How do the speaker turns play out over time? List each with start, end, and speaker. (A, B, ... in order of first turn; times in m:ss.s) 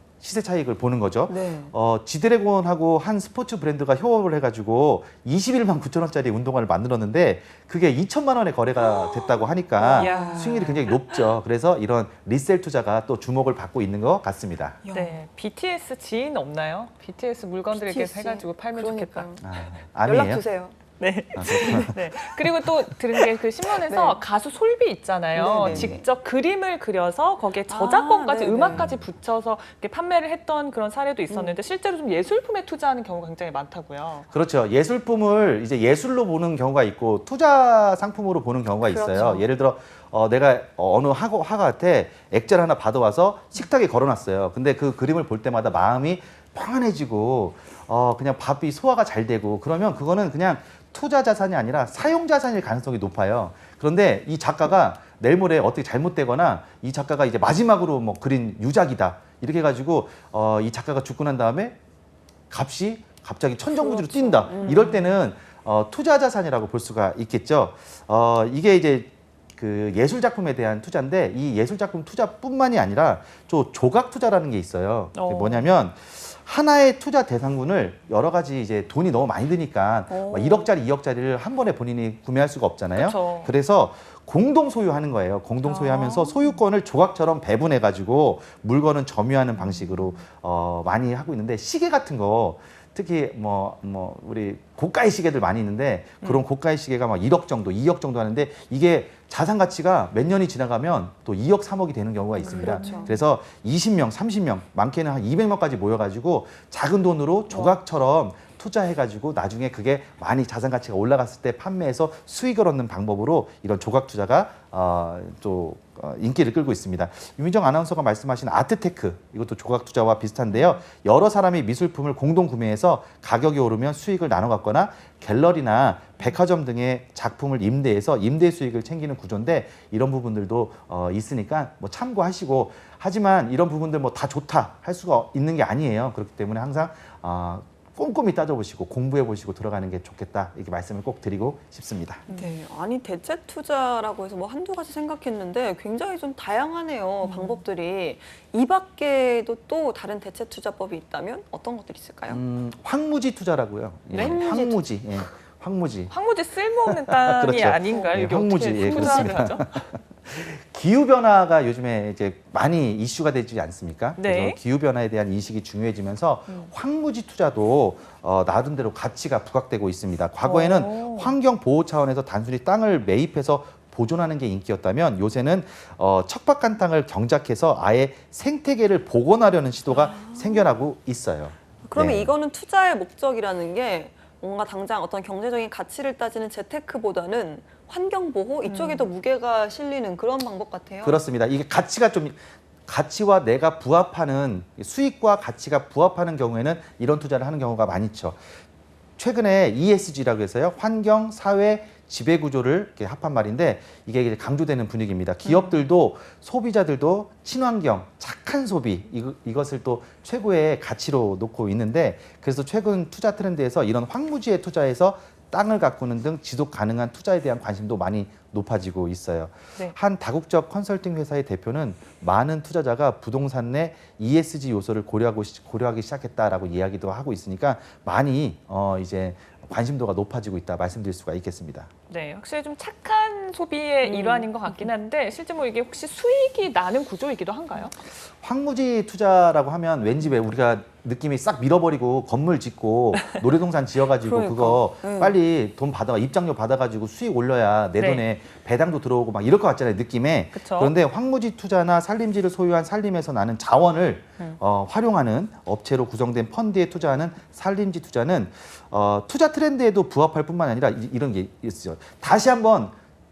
0:00.2-0:14.8 A
0:01.3-0:01.7 B
0:09.8-0:10.8 B
0:10.0-0:11.1 C
0:14.8-0:15.2 B
0:14.9-0:19.3 C
0:17.7-0:20.8 B
0:19.4-0:20.4 A
0:21.0-0:34.3 C
0:21.4-0:22.0 A
0:21.7-0:22.4 B
0:23.2-0:24.2 B
0:25.4-0:26.1 B
0:25.6-0:26.0 A
0:27.7-0:28.9 B
0:28.7-0:29.1 A
0:31.3-0:31.6 B
0:34.3-1:01.8 A
0:38.8-0:39.5 B
1:02.5-2:22.3 A
1:03.7-1:05.1 B
1:15.1-1:15.7 C
1:20.1-1:20.7 B
1:23.0-1:23.5 C
1:25.6-1:26.6 C
1:29.6-1:30.2 C
1:42.4-1:43.2 C
1:42.4-1:43.2 B
2:00.5-2:00.8 C
2:22.3-2:32.4 B
2:27.2-2:27.6 C
2:32.3-2:36.1 A
2:34.1-2:34.4 C
2:34.2-2:34.8 B
2:36.1-2:39.7 C
2:36.9-3:02.3 A
2:37.9-2:38.2 B
2:38.8-2:39.5 B
2:44.2-2:44.6 C
2:50.4-2:51.4 C
2:59.9-3:00.7 B
3:01.9-3:11.2 B
3:08.6-3:09.1 C
3:11.0-3:18.4 A
3:19.2-3:51.9 A
3:25.4-3:25.8 C
3:52.1-3:57.9 C
3:54.0-3:54.9 B
3:58.4-4:23.0 A
4:04.2-4:05.4 B
4:08.0-4:08.2 C
4:10.5-4:10.9 C